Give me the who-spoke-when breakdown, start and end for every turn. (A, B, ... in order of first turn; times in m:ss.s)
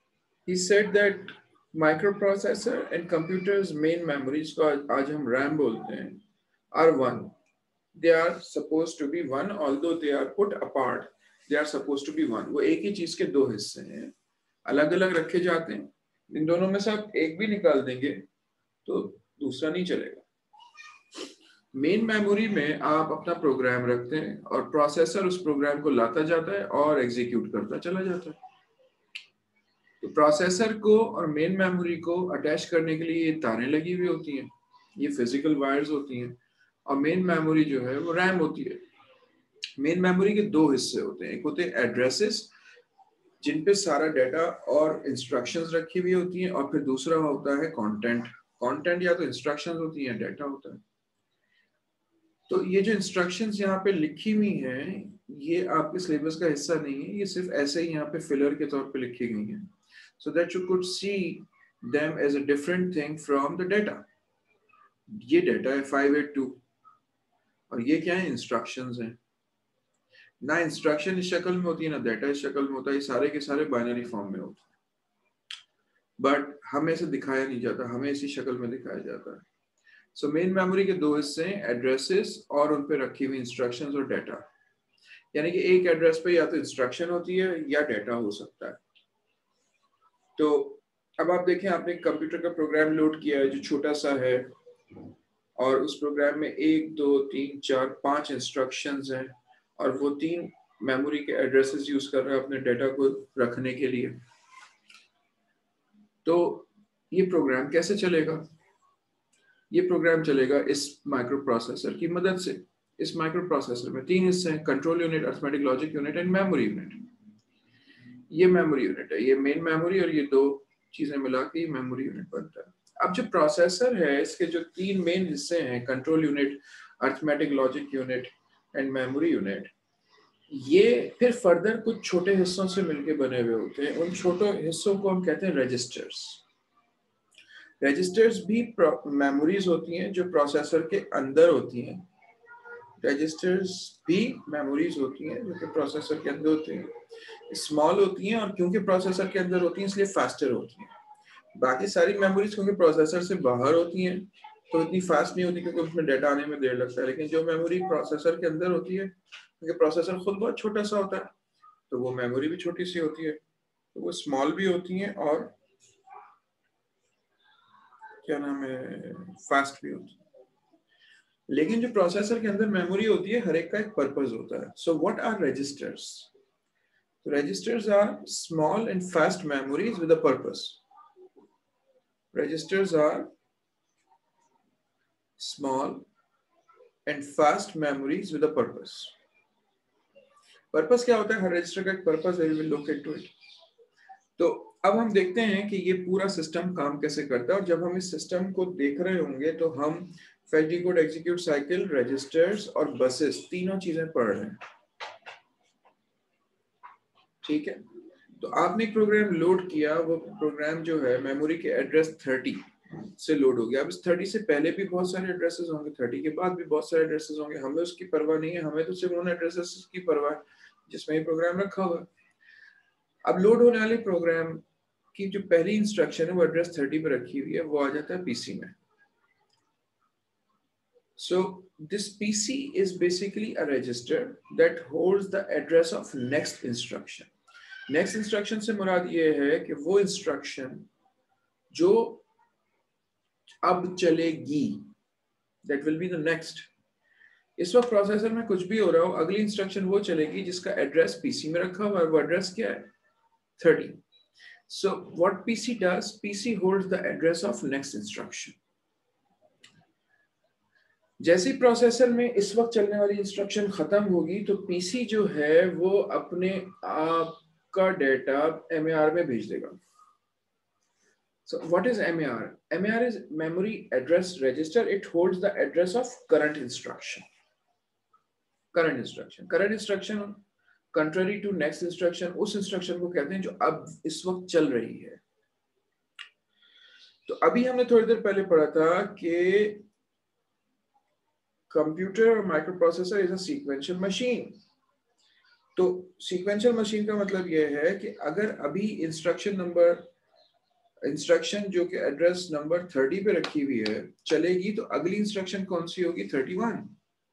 0:00.4-0:06.2 A
0:06.7-0:07.3 A
0:07.9-0:14.1 A
0:14.6-0:18.2 A
0:18.8-0:20.2 A
0:21.7-0:28.4 A
0:30.0-0:38.8 A
0:39.8-0:42.5 A
0:43.4-0:50.8 A
0:52.5-1:04.0 A
1:05.1-1:06.6 A
1:07.7-1:09.2 A
1:10.4-1:14.6 A
1:16.2-1:19.4 A
1:20.1-1:24.4 A
1:25.3-1:28.8 A
1:30.4-1:34.5 A
1:35.6-1:44.1 A
1:46.2-1:48.4 A
1:49.7-1:57.0 A
1:58.3-2:09.7 A
2:10.5-2:16.4 A
2:17.8-2:22.0 A
2:23.0-2:26.9 A
2:27.5-2:30.9 A
2:31.5-2:41.3 A
2:41.9-2:43.4 A
2:43.9-2:45.5 A
2:48.2-2:50.1 A
2:51.5-2:56.3 A
2:57.2-3:00.8 A
3:02.3-3:03.3 A
3:05.4-3:06.1 A
3:07.0-3:09.1 A
3:10.7-3:13.3 A
3:14.4-3:24.6 A
3:27.4-3:27.8 A
3:28.4-3:32.6 A
3:33.1-3:42.1 A
3:43.2-3:44.6 A
3:45.1-3:48.7 A
3:51.2-3:57.3 A
3:57.9-4:00.9 A
4:01.7-4:02.2 A
4:03.6-4:04.9 A
4:05.6-4:06.7 A
4:07.6-4:12.9 A
4:13.6-4:14.0 A
4:14.7-4:18.6 A
4:21.2-4:29.8 A
4:31.4-4:37.2 A
4:38.7-4:40.4 A
4:40.9-4:45.2 A
4:47.2-4:49.8 A
4:51.7-4:54.6 A
4:55.8-5:00.1 A
5:01.0-5:06.9 A